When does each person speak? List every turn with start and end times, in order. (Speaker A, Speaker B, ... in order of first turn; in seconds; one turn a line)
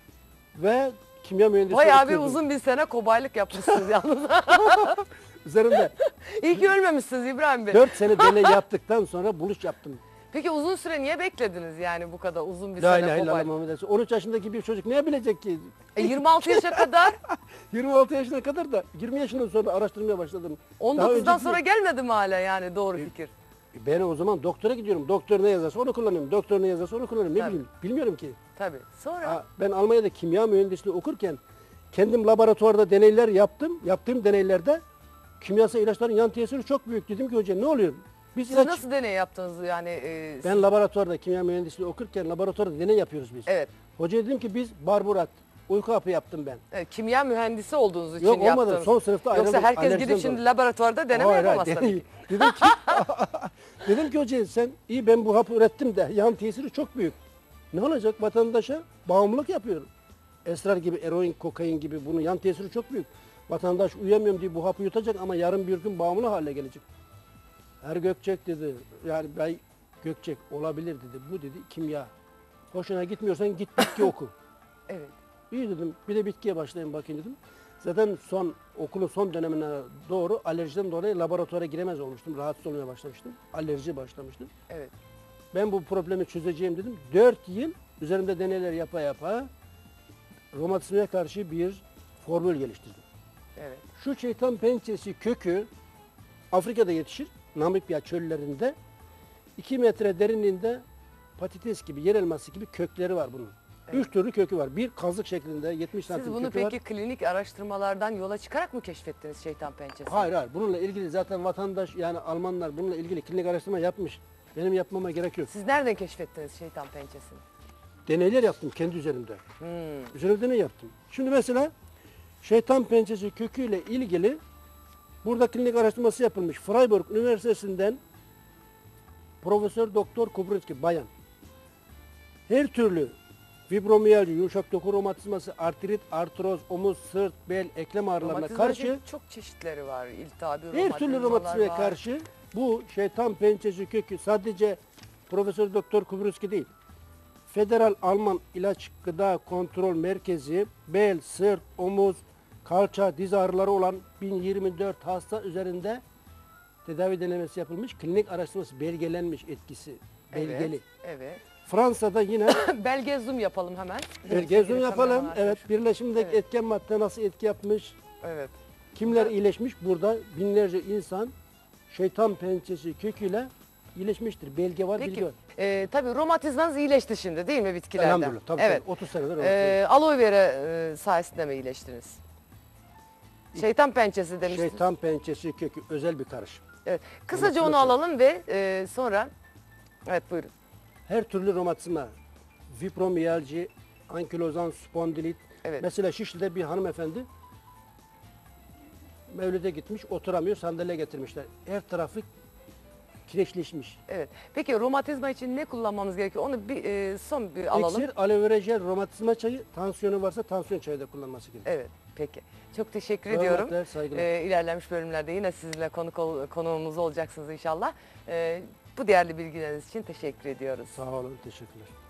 Speaker A: 0.5-2.4
Speaker B: 1.7-5.0
Speaker A: 3.7-3.9
Speaker A: 4.5-5.9
Speaker B: 5.8-8.6
Speaker A: 7.7-10.0
Speaker B: 10.3-13.5
Speaker A: 12.8-21.6
Speaker B: 15.9-17.2
Speaker B: 20.8-23.3
Speaker A: 23.7-28.4
Speaker B: 27.3-27.6
Speaker B: 28.6-29.4
Speaker A: 29.2-31.4
Speaker A: 31.9-34.8
Speaker A: 35.4-38.8
Speaker B: 38.5-40.7
Speaker A: 40.4-46.6
Speaker B: 43.5-43.7
Speaker B: 46.7-53.0
Speaker A: 48.2-50.4
Speaker A: 51.1-57.2
Speaker A: 57.7-59.9
Speaker A: 60.4-66.8
Speaker A: 67.8-72.1
Speaker A: 72.7-74.3
Speaker B: 74.9-75.1
Speaker A: 75.5-84.5
Speaker A: 85.5-89.5
Speaker A: 90.5-93.0
Speaker B: 93.5-93.8
Speaker A: 94.0-95.7
Speaker A: 96.5-98.8
Speaker A: 99.6-100.8
Speaker A: 101.4-106.8
Speaker B: 106.1-110.3
Speaker A: 110.0-115.5
Speaker B: 115.5-117.4
Speaker A: 118.0-119.4
Speaker B: 119.6-120.1
Speaker A: 120.1-121.7
Speaker A: 122.4-124.4
Speaker A: 125.2-128.0
Speaker A: 129.4-131.1
Speaker A: 132.5-133.2
Speaker A: 133.7-139.0
Speaker B: 138.2-142.0
Speaker A: 140.7-146.7
Speaker A: 147.5-156.0
Speaker A: 156.8-160.8
Speaker B: 160.3-161.4
Speaker A: 161.7-162.7
Speaker B: 162.5-165.6
Speaker A: 164.3-168.0
Speaker B: 166.2-166.4
Speaker B: 168.2-168.5
Speaker A: 168.9-171.3
Speaker A: 171.9-175.4
Speaker B: 175.0-178.8
Speaker A: 177.9-179.8
Speaker B: 179.4-182.2
Speaker B: 183.5-184.8
Speaker A: 184.4-186.6
Speaker B: 186.8-189.3
Speaker A: 187.3-188.0
Speaker B: 190.1-190.5
Speaker A: 191.1-192.1
Speaker A: 192.7-197.3
Speaker A: 199.3-202.3
Speaker A: 203.3-204.0
Speaker B: 204.1-208.1
Speaker A: 207.7-211.7
Speaker B: 211.6-221.0
Speaker A: 213.3-214.3
Speaker A: 220.9-221.9